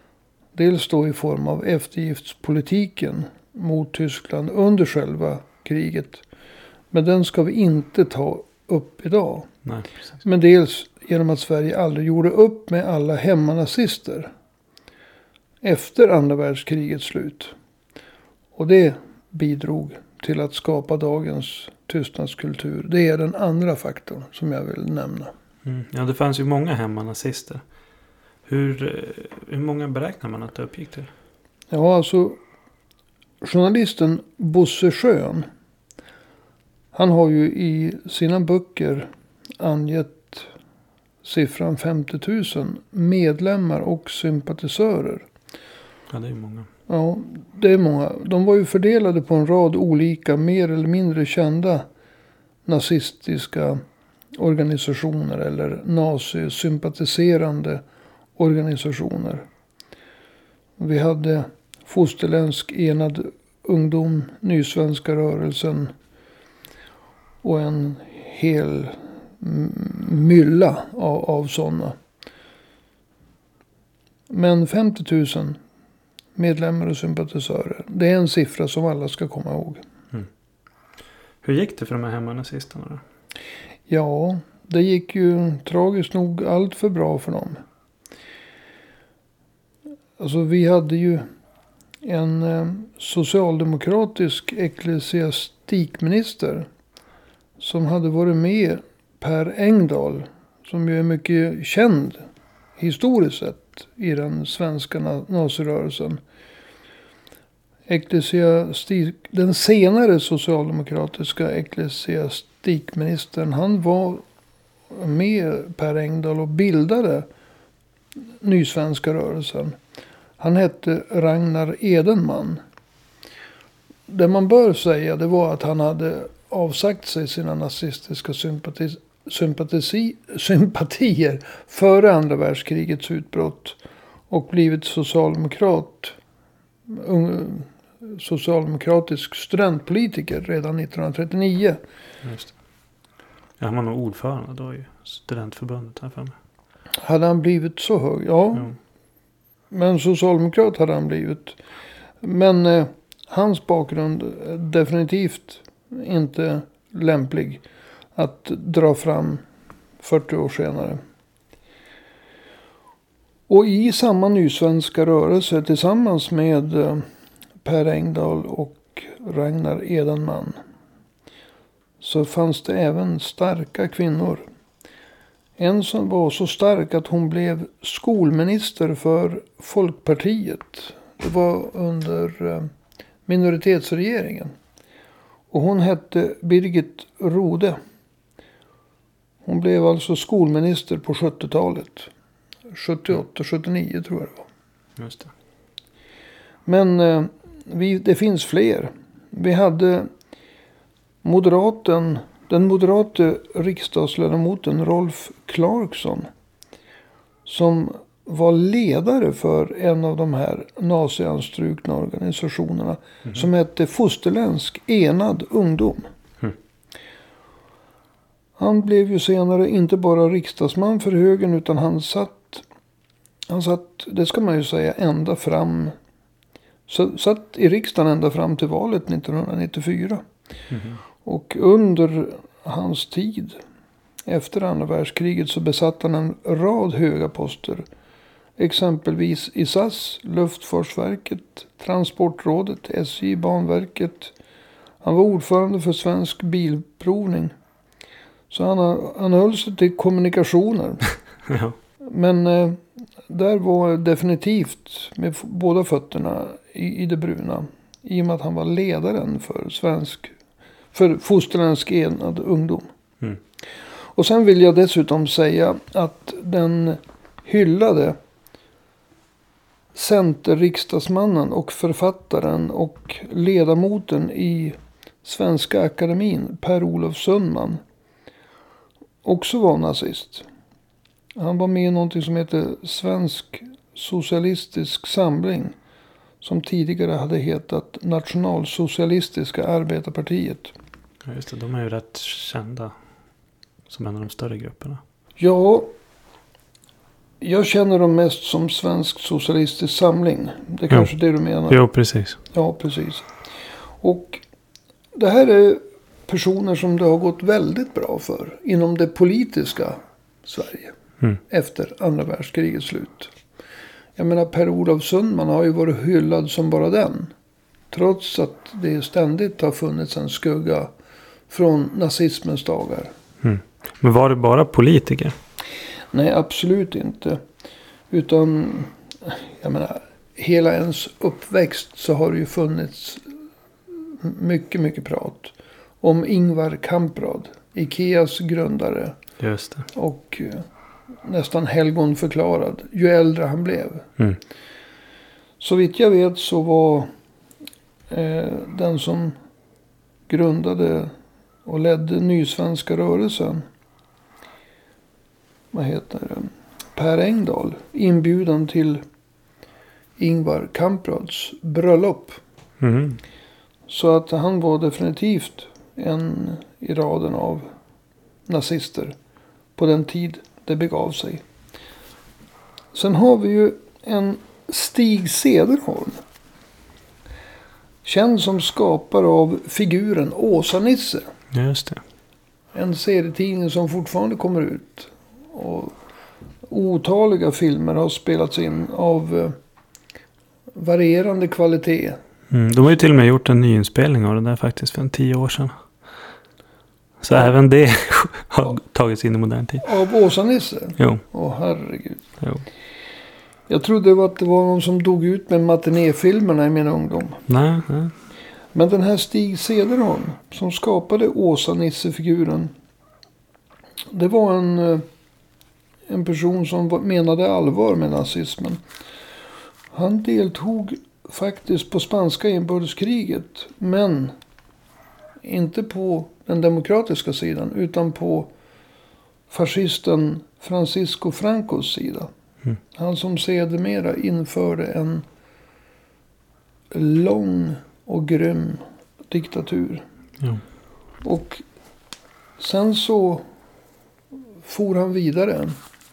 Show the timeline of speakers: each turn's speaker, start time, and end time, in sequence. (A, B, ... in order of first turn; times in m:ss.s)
0:00.5-0:06.2 A
0:06.9-0:09.5 A
0:10.2-0:14.3 A
0:15.6-0:17.5 A
0:18.6-0:25.3 A
0:25.6-0:27.6 B
0:28.4-0:31.1 B
0:31.7-0:32.4 A
0:33.4-0:35.5 A
0:36.9-0:40.5 A
0:41.2-0:45.3 A
0:46.1-0:46.7 B
0:46.9-0:51.8 A
0:52.6-0:53.8 A
0:54.3-0:57.8 A
0:58.4-0:59.4 A
1:00.8-1:05.9 A
1:07.4-1:11.9 A
1:14.3-1:15.6 A
1:16.4-1:19.8 A
1:21.4-1:23.0 B
1:23.9-1:27.6 A
1:30.2-1:31.2 A
1:32.0-1:36.7 A
1:37.6-1:42.2 A
1:42.8-1:46.2 A
1:47.9-1:54.2 A
1:54.9-1:57.3 A
1:58.4-1:59.8 A
2:00.4-2:02.6 A
2:04.1-2:13.8 A
2:14.3-2:16.2 A
2:16.9-2:21.8 A
2:22.2-2:22.5 B
2:23.6-2:26.3 B
2:27.0-2:28.7 A
2:29.7-2:31.6 A
2:32.2-2:37.6 A
2:38.1-2:39.4 A
2:40.0-2:41.0 A
2:43.5-2:47.0 A
2:47.6-2:50.6 A
2:52.0-2:54.4 A
2:55.6-3:02.7 A
3:03.3-3:04.5 A
3:05.5-3:07.8 A
3:09.4-3:12.1 A
3:12.7-3:14.5 A
3:15.0-3:15.3 B
3:16.6-3:20.1 A
3:21.2-3:26.3 A
3:27.4-3:36.1 A
3:38.6-3:42.6 A
3:43.5-3:45.9 A
3:46.9-3:50.2 A
3:50.7-3:51.0 B
3:51.2-3:53.6 A
3:54.2-3:57.8 A
3:58.6-4:04.3 A
4:05.0-4:07.5 A
4:08.5-4:11.0 A
4:11.5-4:11.7 B
4:12.0-4:20.3 A
4:20.9-4:22.8 A
4:24.1-4:28.2 A
4:29.9-4:37.8 A
4:39.2-4:40.4 A
4:41.4-4:45.7 A
4:46.4-4:50.7 A
4:51.2-4:52.9 B
4:53.9-4:55.0 B
4:55.4-4:55.9 A
4:57.4-5:01.8 A
5:01.7-5:02.4 B
5:02.5-5:03.3 A
5:04.0-5:04.4 A
5:05.1-5:11.0 A
5:11.5-5:13.3 A
5:14.2-5:17.3 A
5:17.9-5:20.9 A
5:21.5-5:23.1 A
5:23.4-5:25.3 B
5:26.1-5:27.4 A
5:28.1-5:33.3 A
5:34.0-5:39.2 A
5:39.4-5:39.8 B
5:39.9-5:40.6 A
5:41.2-5:44.1 A
5:45.6-5:47.1 A
5:48.1-5:49.3 A
5:50.3-5:51.1 A
5:51.6-5:53.6 A
5:55.7-5:59.0 A
6:00.2-6:02.4 A
6:02.8-6:03.2 B
6:03.9-6:07.7 A
6:08.5-6:09.1 A
6:09.8-6:11.4 A
6:12.9-6:16.2 A
6:18.0-6:21.3 A
6:21.5-6:22.0 B
6:22.7-6:26.0 A
6:26.6-6:29.5 A
6:30.7-6:32.2 A
6:32.5-6:35.7 B
6:37.2-6:39.8 B
6:39.8-6:42.2 A
6:43.7-6:47.4 A
6:47.5-6:48.1 B
6:48.7-6:52.7 A
6:54.1-6:55.0 A
6:56.1-6:58.8 A
6:59.9-7:04.3 A
7:05.4-7:08.5 A
7:09.5-7:12.3 A
7:12.9-7:15.2 A
7:16.9-7:20.0 A
7:21.2-7:21.6 A
7:22.6-7:23.4 A
7:24.6-7:25.8 A